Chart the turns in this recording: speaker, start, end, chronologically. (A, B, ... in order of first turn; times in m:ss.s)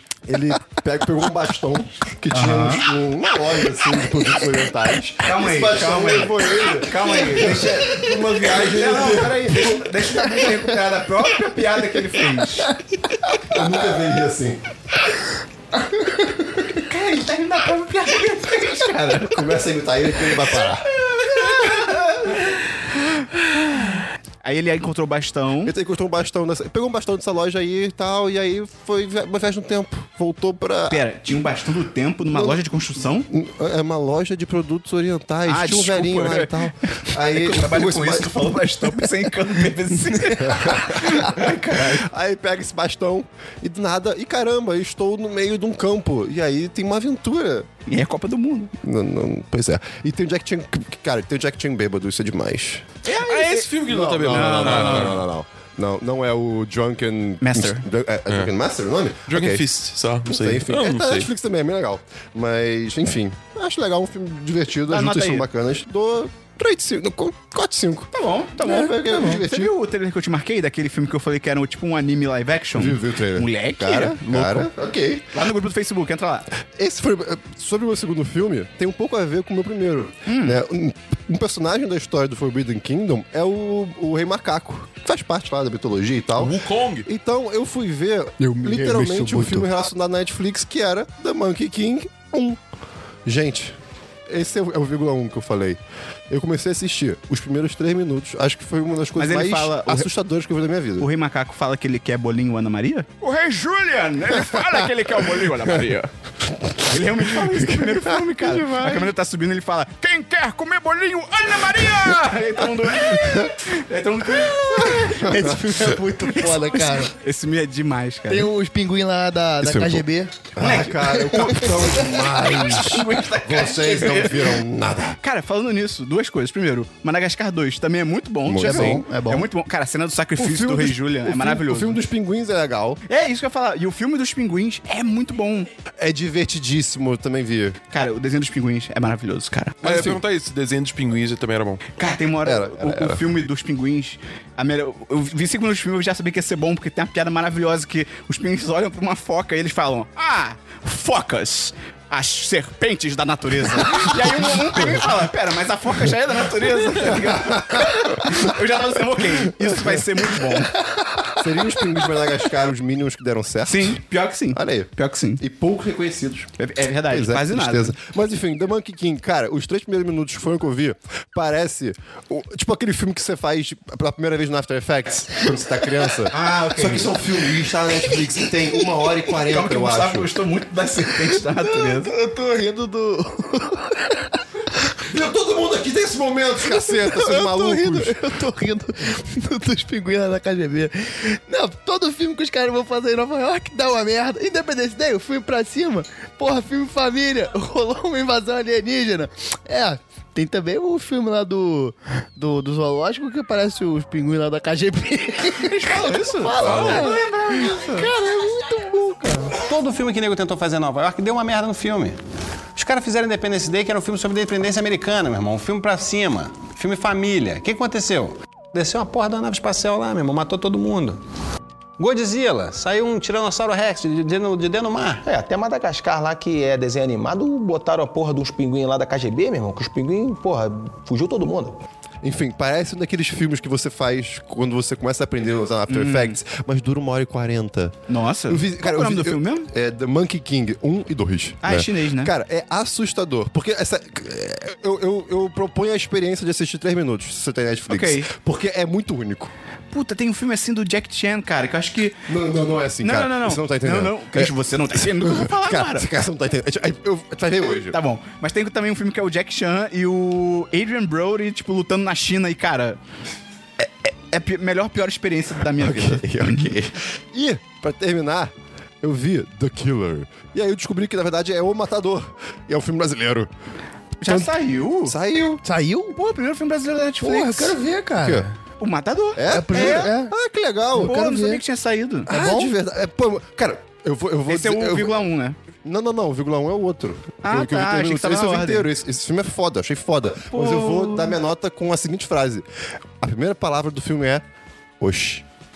0:00.2-0:10.0 A
0:02.3-0:02.9 B
0:05.2-0:12.7 B
0:13.5-0:14.6 A
0:16.7-0:19.6 B
0:19.3-0:20.9 A
0:21.0-0:22.5 B
0:24.4-0:25.7 B
0:25.6-0:31.0 A
0:30.9-0:33.3 B
0:32.3-0:32.6 A
0:33.3-0:38.6 A
0:35.4-0:42.1 B
0:40.4-0:47.7 A
0:47.8-0:48.7 B
0:48.8-0:52.9 A
0:53.0-0:53.7 B
0:53.2-0:55.2 C
0:53.8-0:59.7 A
0:54.3-0:55.2 B
0:57.4-0:57.8 B
0:59.3-1:01.3 C
1:00.3-1:09.7 A
1:04.9-1:05.4 B
1:08.1-1:14.7 B
1:12.7-1:15.3 A
1:15.3-1:16.5 B
1:16.7-1:32.6 A
1:20.2-1:20.6 B
1:26.4-1:27.1 C
1:28.4-1:29.6 D
1:33.2-1:41.1 A
1:39.2-1:40.1 B
1:41.0-1:46.1 B
1:46.6-1:49.0 A
1:46.8-1:55.6 B
1:51.7-1:52.1 A
1:52.8-1:53.6 A
1:54.4-1:55.9 A
1:55.1-1:57.1 D
1:56.3-1:58.5 B
1:58.3-2:00.5 D
1:59.6-2:05.2 A
2:00.6-2:04.6 B
2:05.2-2:12.0 B
2:08.4-2:09.0 A
2:08.6-2:09.5 D
2:10.4-2:13.0 A
2:13.1-2:15.7 B
2:16.0-2:17.8 A
2:17.9-2:19.8 B
2:19.8-2:20.2 A
2:19.8-2:21.8 C
2:22.0-2:40.8 B
2:22.4-2:23.3 A
2:37.0-2:38.4 A
2:39.6-2:40.0 A
2:41.0-2:41.3 D
2:41.4-2:44.0 A
2:43.6-2:45.4 B
2:44.5-2:46.5 A
2:46.6-2:48.0 B
2:47.0-3:00.3 A
2:56.3-2:57.2 B
2:59.4-3:02.1 B
3:01.6-3:04.4 D
3:05.0-3:08.2 A
3:06.6-3:29.6 D
3:25.6-3:28.1 B
3:26.6-3:27.2 C
3:29.6-3:32.2 E
3:32.7-3:41.2 E
3:42.0-3:45.3 E
3:45.2-3:51.7 F
3:52.2-4:09.5 A
3:55.9-3:56.4 B
3:58.1-3:59.7 B
4:01.6-4:02.3 B
4:07.9-4:08.3 B
4:09.9-4:12.2 B
4:12.3-4:18.0 A
4:13.0-4:16.1 B
4:17.9-4:23.0 B
4:23.8-4:26.7 B
4:25.8-4:33.5 A
4:34.2-4:35.2 B
4:34.2-4:35.6 A
4:35.6-4:36.2 D
4:36.1-4:37.8 B
4:37.2-4:38.5 D
4:38.2-4:38.5 A
4:38.8-4:40.1 B
4:39.4-4:41.3 A
4:39.5-4:40.3 D
4:40.9-4:41.6 D
4:41.0-4:42.3 B
4:42.3-4:42.7 D
4:42.3-4:45.2 A
4:44.5-4:45.6 B
4:45.8-4:52.6 A
4:47.4-4:48.9 B
4:50.5-4:51.4 B
4:53.2-4:54.4 A
4:55.0-4:55.4 A